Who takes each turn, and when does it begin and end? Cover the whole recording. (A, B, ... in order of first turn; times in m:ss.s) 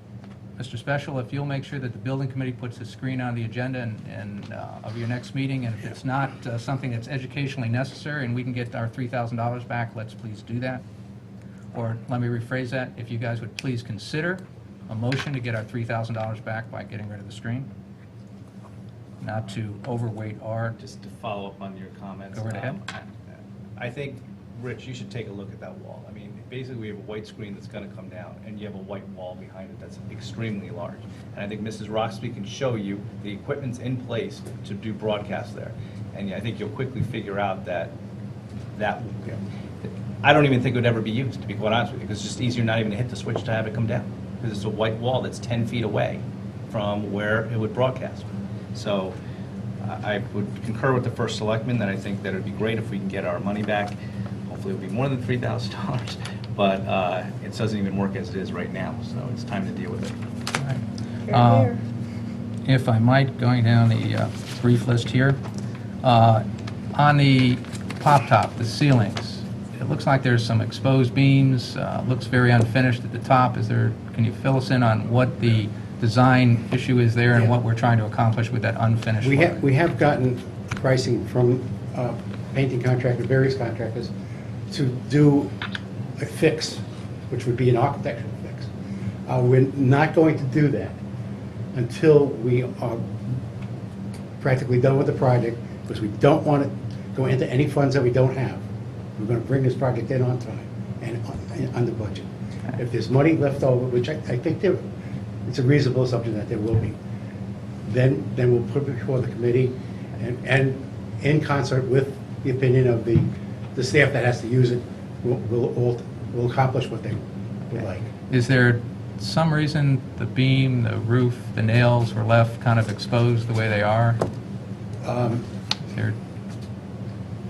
0:00.6-0:10.8 A
0:11.7-0:17.7 A
0:19.2-0:20.8 A
0:20.8-0:23.1 B
0:22.3-0:22.8 A
0:23.8-0:37.9 B
0:38.7-0:49.2 B
0:49.8-0:53.9 B
0:54.5-1:00.2 B
1:00.6-1:01.8 A
1:02.6-1:05.4 A
1:06.0-1:19.6 A
1:19.2-1:24.1 C
1:24.7-1:25.5 C
1:26.2-1:28.7 C
1:29.2-1:31.0 C
1:31.7-1:33.0 C
1:34.4-1:38.6 C
1:39.2-1:44.8 C
1:45.4-1:47.0 C
1:47.8-1:58.1 C
1:58.3-2:04.2 A
2:05.0-2:05.4 C
2:05.9-2:06.2 A